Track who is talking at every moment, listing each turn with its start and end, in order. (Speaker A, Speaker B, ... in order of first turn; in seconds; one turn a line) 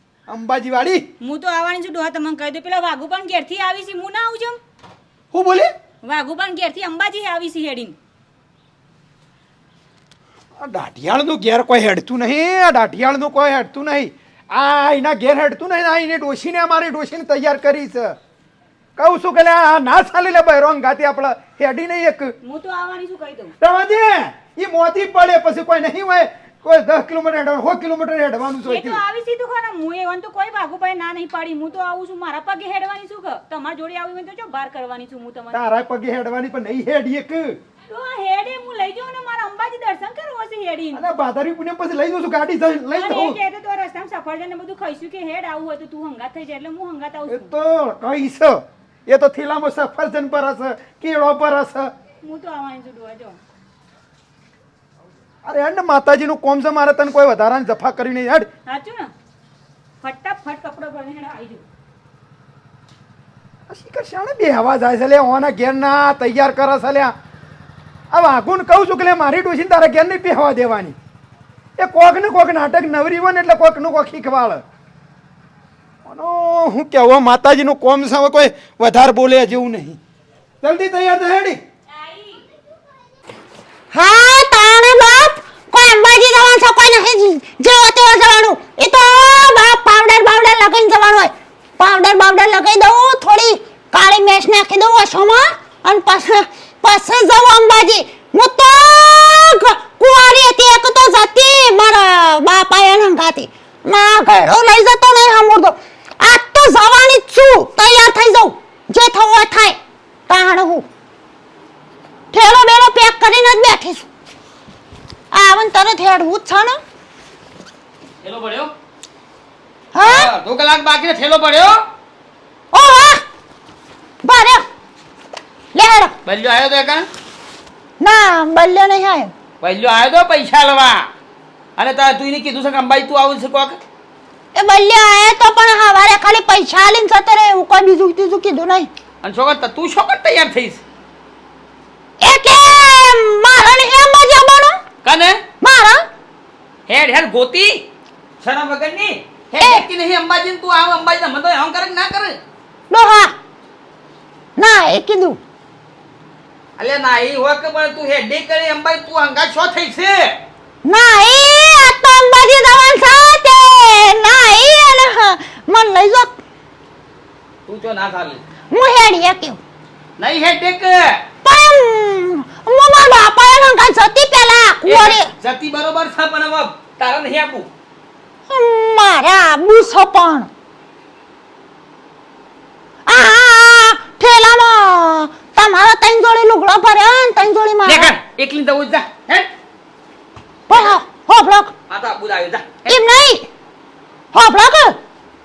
Speaker A: 0.3-1.1
Speaker B: 1.2-4.6
Speaker A: 5.3-5.7
Speaker B: 6.0-8.0
Speaker A: 10.6-18.2
Speaker A: 19.0-22.3
Speaker B: 22.4-23.5
Speaker A: 23.6-29.0
Speaker B: 28.7-35.6
Speaker A: 35.5-37.6
Speaker B: 37.9-41.0
Speaker A: 40.9-43.4
Speaker B: 42.9-47.5
Speaker A: 47.3-51.9
Speaker B: 52.2-53.4
Speaker A: 55.5-58.5
Speaker B: 58.7-59.1
Speaker B: 60.0-61.6
Speaker A: 63.7-67.1
Speaker A: 68.1-71.0
Speaker A: 71.8-74.6
Speaker A: 76.0-80.0
Speaker A: 80.6-81.6
Speaker B: 81.9-82.4
Speaker C: 83.9-109.8
Speaker C: 110.3-110.9
Speaker C: 112.3-114.1
Speaker C: 115.3-116.8
Speaker D: 118.2-118.7
Speaker C: 119.9-120.3
Speaker D: 120.0-121.8
Speaker C: 122.7-123.2
Speaker C: 124.2-124.6
Speaker C: 125.7-126.2
Speaker D: 126.2-127.1
Speaker C: 128.0-129.3
Speaker D: 129.6-131.1
Speaker D: 131.8-133.8
Speaker C: 134.6-138.9
Speaker D: 139.2-140.8
Speaker C: 142.2-144.8
Speaker D: 145.1-145.4
Speaker C: 145.6-146.0
Speaker D: 146.9-147.8
Speaker D: 148.4-152.4
Speaker C: 149.6-149.9
Speaker C: 152.9-153.3
Speaker C: 154.6-155.4
Speaker D: 156.8-160.3
Speaker C: 160.8-166.4
Speaker D: 167.7-168.4
Speaker C: 168.7-169.6
Speaker D: 170.2-171.1
Speaker C: 171.4-175.3
Speaker D: 174.9-177.7
Speaker C: 178.5-180.5
Speaker C: 183.1-188.1
Speaker D: 187.9-189.5
Speaker C: 190.7-191.7
Speaker D: 191.9-193.0
Speaker C: 192.9-193.5
Speaker C: 194.3-195.0